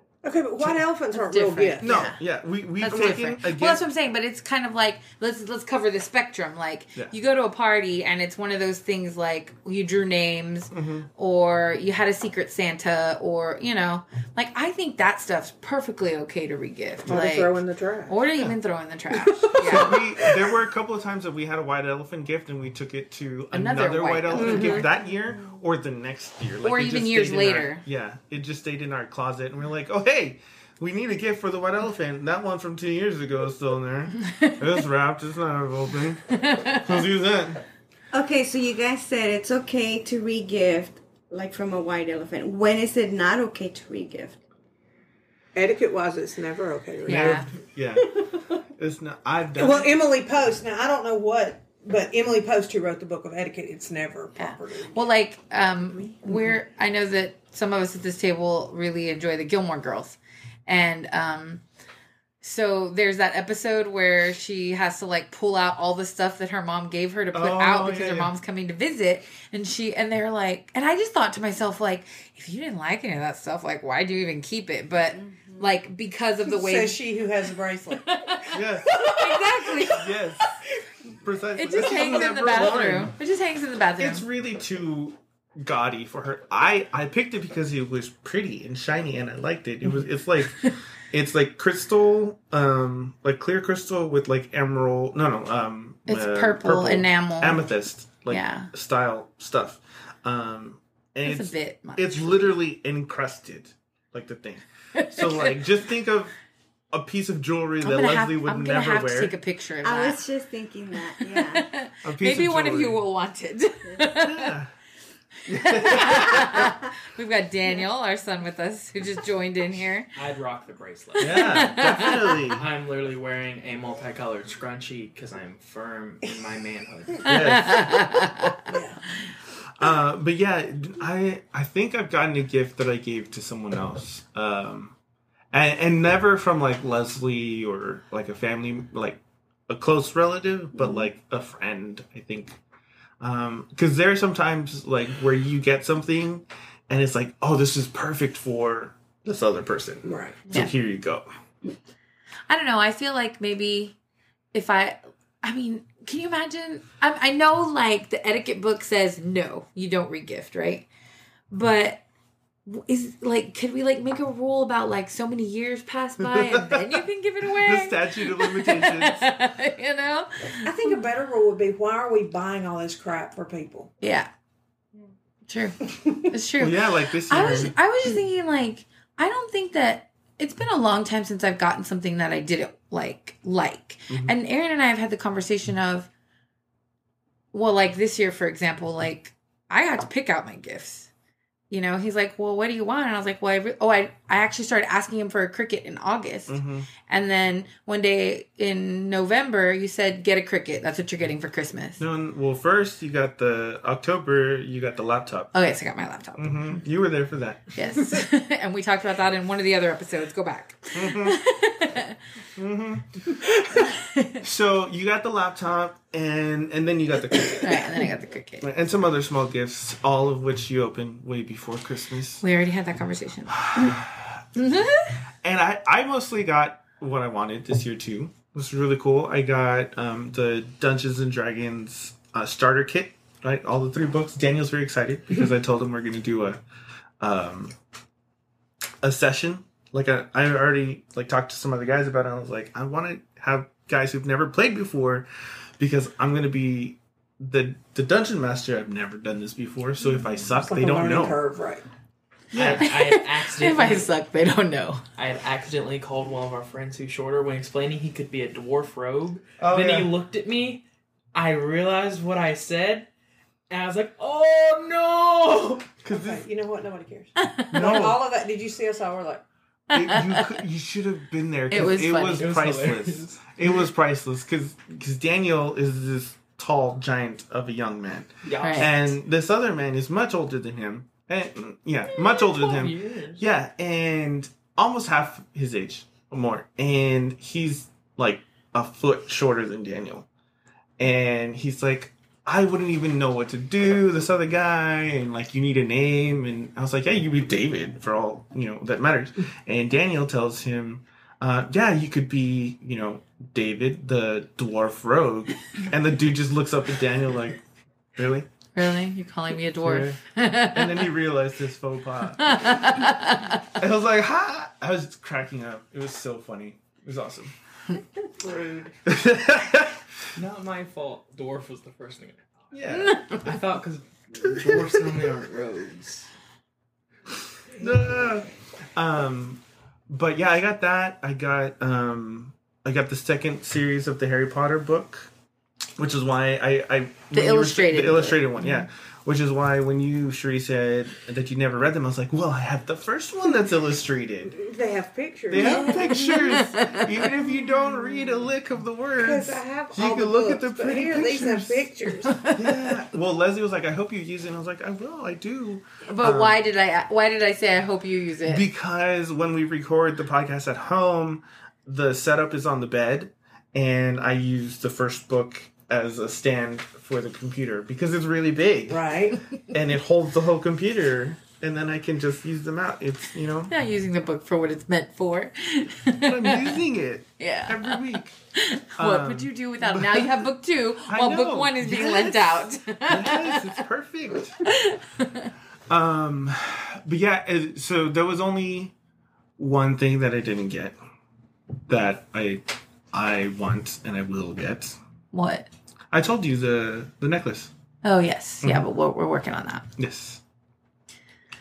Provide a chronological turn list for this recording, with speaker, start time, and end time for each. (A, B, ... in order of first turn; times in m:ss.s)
0:00.2-0:02.0 A
0:01.1-0:02.2 B
0:01.8-0:03.8 C
0:02.8-0:20.0 B
0:02.9-0:03.2 A
0:10.7-0:11.1 C
0:17.1-0:18.2 A
0:19.1-0:20.5 A
0:19.6-0:37.6 C
0:23.5-0:24.8 B
0:24.3-0:24.9 A
0:24.8-0:25.5 D
0:26.6-0:27.8 B
0:34.2-0:34.6 B
0:36.3-0:36.9 B
0:38.1-0:44.4 D
0:45.5-0:47.5 A
0:47.1-0:47.4 B
0:47.1-0:49.9 C
0:48.0-0:48.4 A
0:49.6-0:55.1 A
0:54.4-1:01.6 B
1:02.4-1:17.0 B
1:07.3-1:08.3 C
1:15.1-1:15.7 D
1:16.4-1:20.1 A
1:17.9-1:20.1 B
1:18.5-1:19.0 C
1:19.9-1:20.5 C
1:21.2-1:23.1 C
1:21.5-1:24.2 B
1:21.7-1:22.9 A
1:24.0-1:46.3 C
1:36.1-1:37.6 B
1:38.3-1:38.7 B
1:41.2-1:42.5 B
1:44.9-1:45.5 B
1:46.9-1:49.3 C
1:47.8-1:50.2 B
1:49.8-1:51.7 D
1:51.2-1:54.6 B
1:52.0-1:53.0 C
1:54.2-1:54.7 C
1:55.4-1:56.7 C
1:55.5-2:00.1 B
2:00.1-2:07.4 E
2:01.2-2:02.4 B
2:01.2-2:02.6 C
2:07.2-2:07.9 C
2:07.3-2:08.6 B
2:08.7-2:09.0 A
2:09.7-2:15.0 C
2:15.5-2:22.6 C
2:23.2-2:31.3 C
2:30.0-2:30.4 A
2:32.5-2:33.9 B
2:34.5-2:40.9 B
2:41.5-2:42.0 B
2:42.6-2:51.0 B
2:46.2-2:49.3 C
2:50.6-2:53.9 A
2:54.0-2:54.3 B
2:55.5-3:06.1 B
2:56.6-2:57.7 C
3:04.1-3:04.3 C
3:07.5-3:11.1 B
3:11.7-3:22.0 B
3:16.5-3:16.9 C
3:22.0-3:25.5 C
3:25.5-3:26.8 B
3:26.4-3:27.8 C
3:27.8-3:32.2 B
3:30.9-3:31.4 C
3:32.6-3:33.4 C
3:33.8-3:34.4 B
3:34.4-3:38.1 C
3:37.5-3:38.7 B
3:38.6-3:42.4 C
3:42.4-3:43.7 B
3:43.6-3:44.4 C
3:44.5-3:45.2 B
3:45.4-3:56.6 C
3:57.2-3:57.8 C
3:59.0-4:05.3 C
4:05.8-4:11.4 C
4:10.4-4:11.8 A
4:12.5-4:15.0 B
4:12.5-4:12.9 C
4:12.6-4:14.1 E
4:15.2-4:23.1 E
4:19.6-4:20.1 C
4:23.7-4:26.0 E
4:26.0-4:26.4 C
4:26.1-4:29.4 A
4:27.4-4:27.7 B
4:27.7-4:28.2 C
4:29.9-4:50.3 C
4:29.9-4:30.6 B
4:31.7-4:32.4 B
4:32.1-4:33.5 E
4:38.4-4:38.9 E
4:38.6-4:39.1 B
4:42.3-4:43.4 E
4:51.0-5:07.6 C
5:08.2-5:08.5 C
5:08.8-5:11.1 B
5:09.8-5:12.7 C
5:12.4-5:13.6 B
5:13.8-5:17.5 C
5:18.4-5:18.9 A
5:19.0-5:20.0 C
5:20.3-5:22.7 E
5:22.7-5:23.3 C
5:22.9-5:23.4 B
5:23.3-5:26.3 E
5:24.5-5:24.9 C
5:27.7-5:28.3 A
5:27.8-5:35.3 C
5:36.0-5:44.6 C
5:37.3-5:38.8 B
5:44.5-5:46.3 A
5:45.5-5:51.9 C
5:45.6-5:47.2 B
5:49.2-5:52.4 A
5:52.3-5:52.9 B
5:52.5-5:56.6 C
5:56.1-5:58.6 B
5:58.4-6:09.0 C
6:08.9-6:09.4 A
6:09.7-6:13.7 C
6:13.7-6:16.8 B
6:16.1-6:18.3 C
6:17.4-6:23.8 B
6:19.0-6:20.4 C
6:21.1-6:24.6 C
6:24.6-6:25.5 B
6:25.9-6:28.9 C
6:29.6-6:31.0 C
6:31.9-6:35.0 C
6:35.3-6:35.7 B
6:36.1-6:37.7 C
6:38.0-6:39.8 B
6:40.0-6:40.4 C